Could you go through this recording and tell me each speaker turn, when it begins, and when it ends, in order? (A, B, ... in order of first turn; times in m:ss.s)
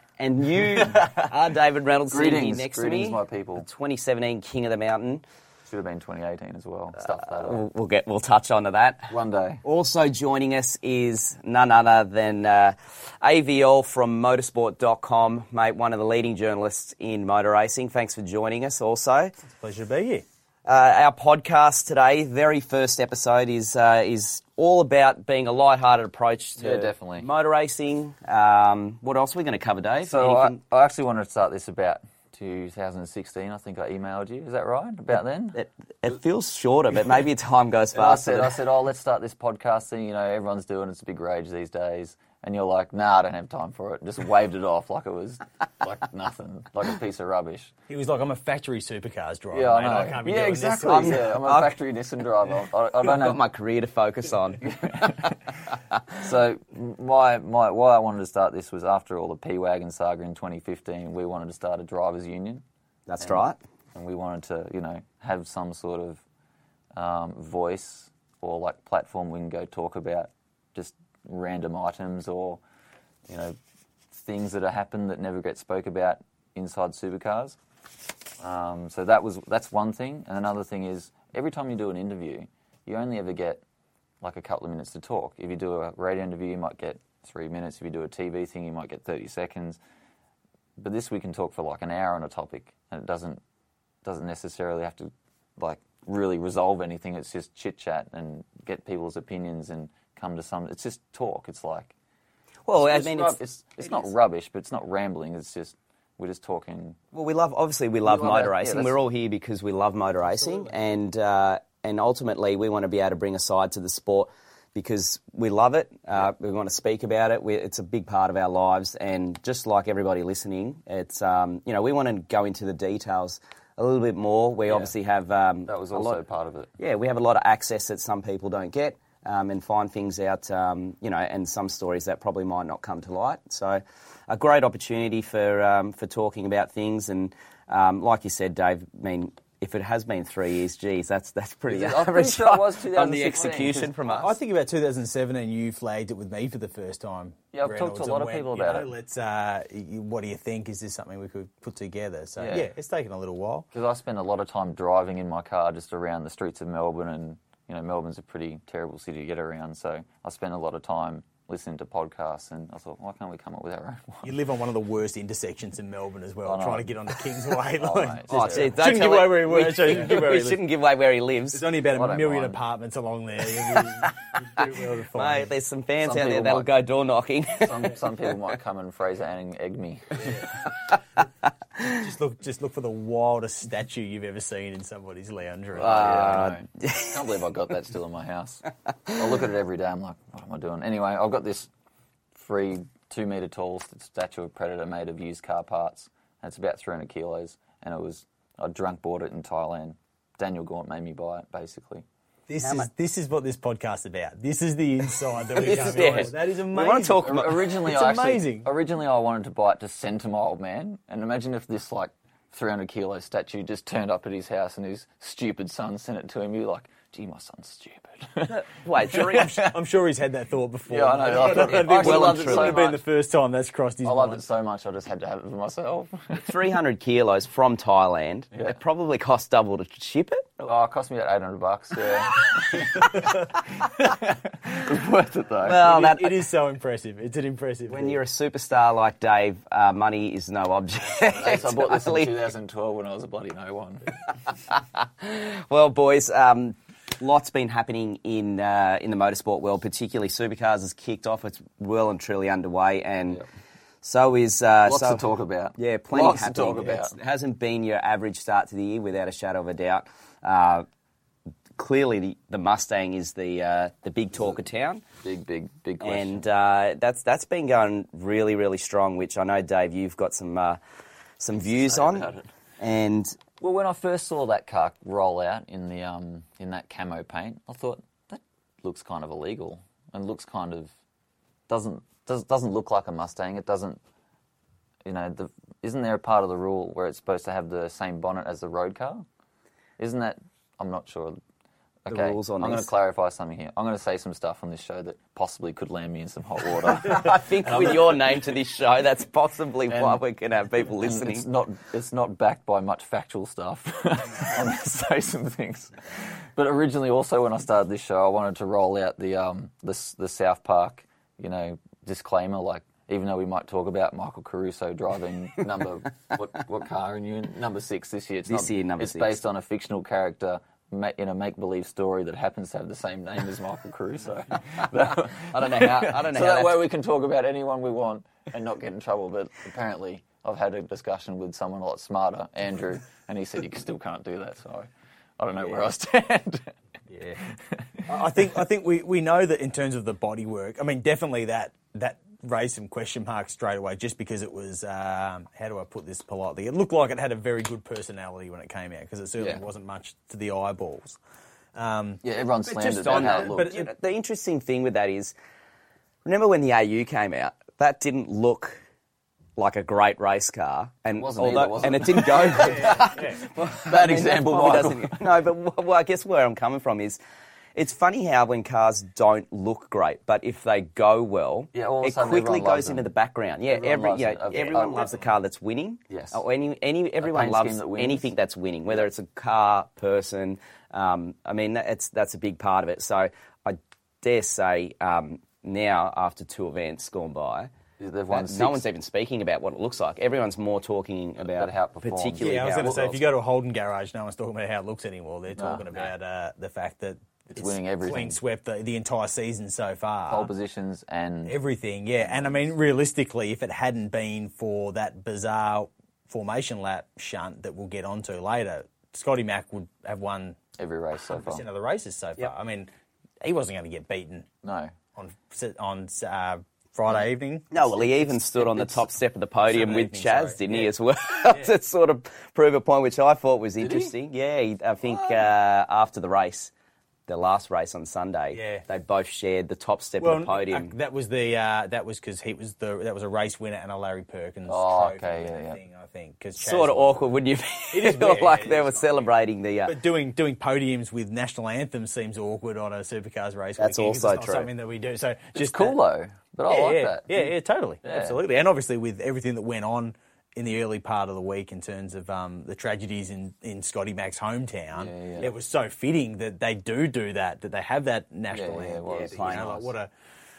0:00.2-0:05.2 A
0:02.1-0:03.6 B
0:05.6-0:07.6 B
0:07.2-0:19.3 A
0:09.1-0:09.6 B
0:19.4-0:20.2 C
0:20.6-0:30.6 A
0:26.6-0:27.3 B
0:30.0-0:35.6 B
0:35.5-0:38.6 A
0:37.9-0:47.7 B
0:47.9-0:51.3 C
0:49.5-0:53.4 B
0:50.8-0:51.7 A
0:53.0-0:55.3 A
0:54.6-0:55.4 B
0:56.1-1:02.6 B
1:03.1-1:03.6 A
1:03.2-1:06.2 B
1:06.9-1:12.6 B
1:13.3-1:13.6 B
1:14.1-1:17.6 B
1:18.4-1:23.6 B
1:24.2-1:29.8 B
1:30.8-1:33.4 B
1:34.0-1:41.9 B
1:42.6-1:44.0 A
1:42.8-1:47.0 B
1:47.1-2:06.2 A
1:48.0-1:49.0 B
2:04.7-2:04.9 B
2:05.6-2:06.7 B
2:06.8-2:24.3 A
2:21.7-2:24.0 B
2:24.0-2:33.6 C
2:27.5-2:28.9 B
2:32.4-2:32.7 B
2:33.7-2:44.3 B
2:44.2-2:50.6 C
2:46.4-2:48.7 B
2:48.3-2:51.6 A
2:51.5-2:55.5 C
2:51.9-2:52.6 B
2:54.9-2:58.0 A
2:56.0-2:56.7 B
2:57.6-3:00.4 B
3:00.7-3:01.0 A
3:01.9-3:06.0 C
3:05.7-3:11.7 B
3:05.8-3:07.2 A
3:12.3-3:22.0 B
3:22.5-3:28.7 C
3:22.6-3:22.9 A
3:25.5-3:27.6 A
3:27.2-3:39.7 B
3:38.5-3:39.6 A
3:39.1-3:44.4 C
3:40.9-3:43.0 B
3:41.7-3:42.8 A
3:44.0-3:46.5 B
3:46.4-3:50.7 A
3:50.6-3:55.8 B
3:55.6-3:56.3 A
3:55.6-3:58.2 C
3:57.9-4:02.4 A
4:01.2-4:04.1 B
4:04.7-4:13.4 A
4:14.0-4:15.2 A
4:14.8-4:17.1 B
4:15.8-4:20.8 A
4:21.8-4:25.0 A
4:25.2-4:26.4 B
4:26.0-4:30.8 A
4:31.4-4:33.4 A
4:31.5-4:32.5 B
4:33.6-4:40.9 B
4:41.7-4:44.0 B
4:45.0-4:49.2 B
4:50.0-4:51.4 B
4:52.0-4:58.2 B
4:52.1-4:52.9 A
4:56.9-5:01.4 A
4:59.9-5:00.2 B
5:01.0-5:36.7 B
5:18.5-5:19.4 A
5:24.8-5:26.8 A
5:37.1-5:37.4 C
5:37.4-5:38.0 B
5:38.1-5:51.2 C
5:49.4-5:49.6 B
5:51.7-5:52.2 C
5:52.2-5:53.8 B
5:52.6-5:55.3 A
5:53.1-5:53.7 C
5:56.2-5:58.8 A
5:59.6-6:07.2 A
6:01.1-6:05.2 B
6:02.8-6:03.4 C
6:07.7-6:27.7 A
6:11.7-6:13.0 B
6:13.7-6:15.3 B
6:16.1-6:16.4 B
6:17.2-6:18.3 B
6:28.0-6:28.8 B
6:28.3-6:33.2 A
6:31.4-6:33.2 B
6:32.4-6:40.5 C
6:35.5-6:35.8 B
6:37.5-6:38.4 B
6:40.3-6:41.6 B
6:41.5-6:50.6 C
6:42.2-6:42.7 B
6:50.8-6:51.6 B
6:51.3-6:52.9 C
6:53.4-6:54.5 C
6:54.6-6:54.9 B
6:55.1-6:57.8 C
6:57.7-7:06.7 A
6:58.6-6:59.0 B
6:59.6-7:00.9 C
7:01.5-7:01.7 C
7:03.8-7:04.1 B
7:07.3-7:10.9 A
7:08.5-7:08.8 C
7:10.2-7:17.2 C
7:14.7-7:15.8 B
7:16.6-7:20.0 A
7:17.9-7:19.3 C
7:19.8-7:26.0 C
7:23.8-7:24.7 A
7:25.5-7:27.5 B
7:26.7-7:40.1 C
7:28.0-7:28.4 B
7:34.9-7:35.5 B
7:38.5-7:39.7 B
7:39.0-7:39.9 A